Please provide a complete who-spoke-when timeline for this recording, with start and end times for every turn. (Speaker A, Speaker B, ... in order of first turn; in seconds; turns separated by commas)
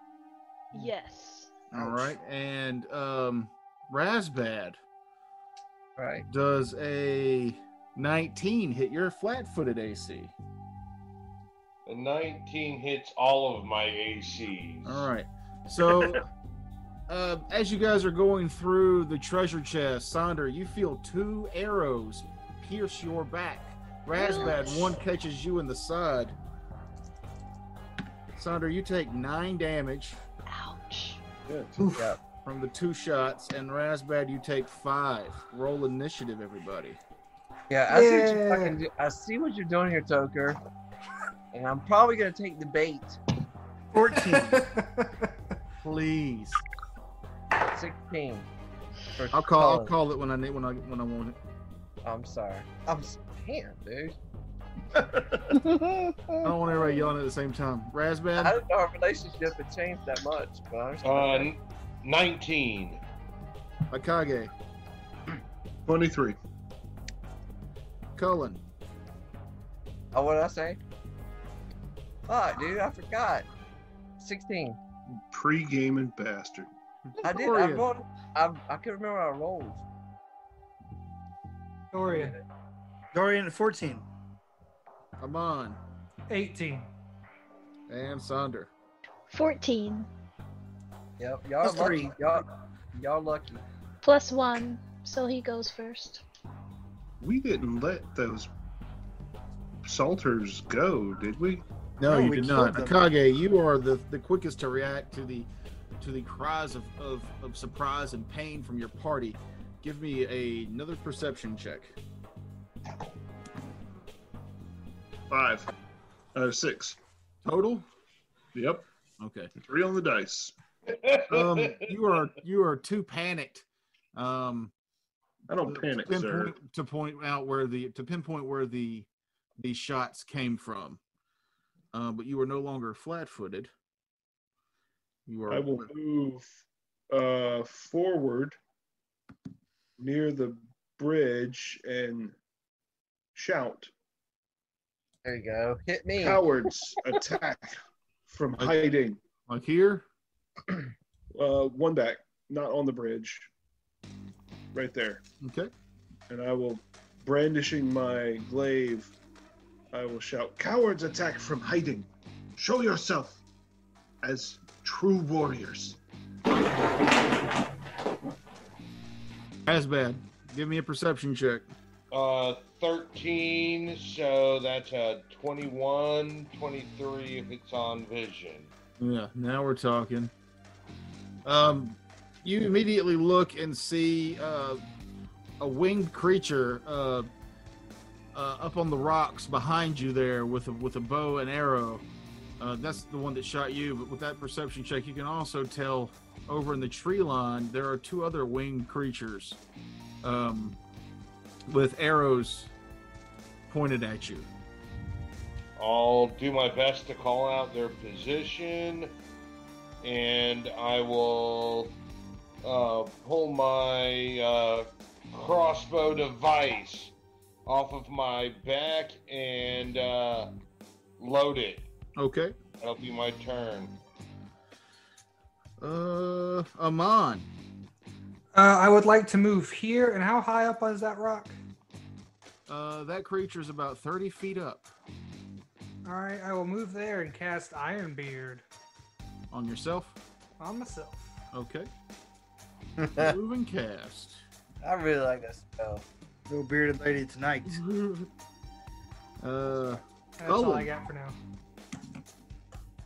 Speaker A: 0.7-1.5, Speaker B: 1.7-4.8, Speaker C: 1.8-2.1, Speaker D: 6.0-6.3, Speaker B: 6.3-10.3, Speaker E: 11.9-15.1, Speaker B: 14.8-16.2, Speaker B: 17.1-26.4, Speaker A: 24.1-24.9, Speaker B: 28.3-30.2, Speaker A: 30.5-31.2, Speaker F: 31.5-31.9, Speaker D: 31.9-32.2, Speaker B: 32.4-37.0, Speaker D: 37.7-40.6, Speaker G: 37.9-38.8, Speaker D: 41.5-43.2, Speaker C: 43.9-44.7, Speaker G: 44.1-45.3, Speaker B: 45.8-46.6, Speaker D: 47.7-48.5, Speaker D: 49.2-50.0, Speaker B: 49.3-51.4, Speaker D: 52.0-54.2, Speaker B: 56.4-58.6, Speaker D: 56.7-57.1, Speaker D: 58.4-61.5, Speaker E: 61.0-63.0, Speaker B: 63.9-64.5, Speaker F: 65.9-66.4, Speaker B: 68.2-68.6, Speaker D: 70.1-70.8, Speaker D: 72.3-73.5, Speaker D: 74.2-74.8, Speaker F: 75.3-76.7, Speaker B: 77.1-77.9, Speaker D: 77.2-79.8, Speaker G: 81.9-82.3, Speaker D: 82.0-82.5, Speaker C: 83.1-84.0, Speaker B: 85.2-85.8, Speaker G: 86.3-86.9, Speaker B: 87.9-88.7, Speaker A: 89.3-90.1, Speaker D: 91.2-93.7, Speaker C: 91.6-92.2, Speaker A: 94.0-96.2, Speaker F: 97.2-98.5, Speaker F: 99.8-101.6, Speaker B: 102.0-112.0, Speaker C: 102.0-103.0, Speaker F: 115.3-115.7, Speaker F: 116.3-117.0, Speaker B: 117.5-117.9, Speaker F: 118.5-118.9, Speaker B: 119.2-119.5, Speaker F: 119.6-120.5, Speaker E: 120.9-121.9, Speaker B: 121.3-124.7, Speaker F: 125.5-126.6, Speaker B: 125.6-129.1, Speaker B: 129.6-131.0, Speaker B: 131.9-133.7, Speaker B: 135.3-135.9, Speaker F: 135.5-138.6, Speaker F: 140.0-142.3, Speaker F: 143.3-143.9, Speaker D: 145.2-146.5, Speaker F: 146.2-147.8, Speaker F: 148.3-149.2, Speaker B: 149.5-150.1, Speaker F: 151.3-153.5, Speaker F: 154.7-155.2, Speaker B: 155.4-155.7, Speaker F: 156.3-159.1, Speaker F: 159.9-163.4, Speaker F: 164.2-166.0, Speaker B: 169.7-171.7, Speaker E: 172.1-178.7, Speaker B: 179.0-180.3, Speaker B: 181.4-184.8, Speaker B: 185.6-187.3, Speaker B: 188.3-192.1, Speaker B: 192.6-199.6, Speaker B: 200.2-200.8, Speaker B: 201.7-202.7, Speaker B: 203.7-204.5, Speaker E: 205.8-209.1, Speaker E: 210.0-211.9, Speaker E: 212.6-217.1, Speaker E: 217.7-220.5, Speaker E: 221.2-221.9, Speaker B: 222.2-222.6, Speaker E: 222.8-223.9, Speaker B: 225.8-227.5, Speaker G: 228.5-231.6, Speaker B: 232.7-234.9, Speaker G: 236.1-238.6, Speaker B: 239.5-240.2, Speaker G: 240.6-241.4, Speaker B: 241.5-241.9, Speaker D: 243.0-243.4, Speaker B: 243.2-244.4, Speaker D: 244.8-246.1, Speaker C: 246.5-247.8, Speaker B: 247.7-248.3, Speaker B: 249.4-250.9, Speaker G: 250.4-251.4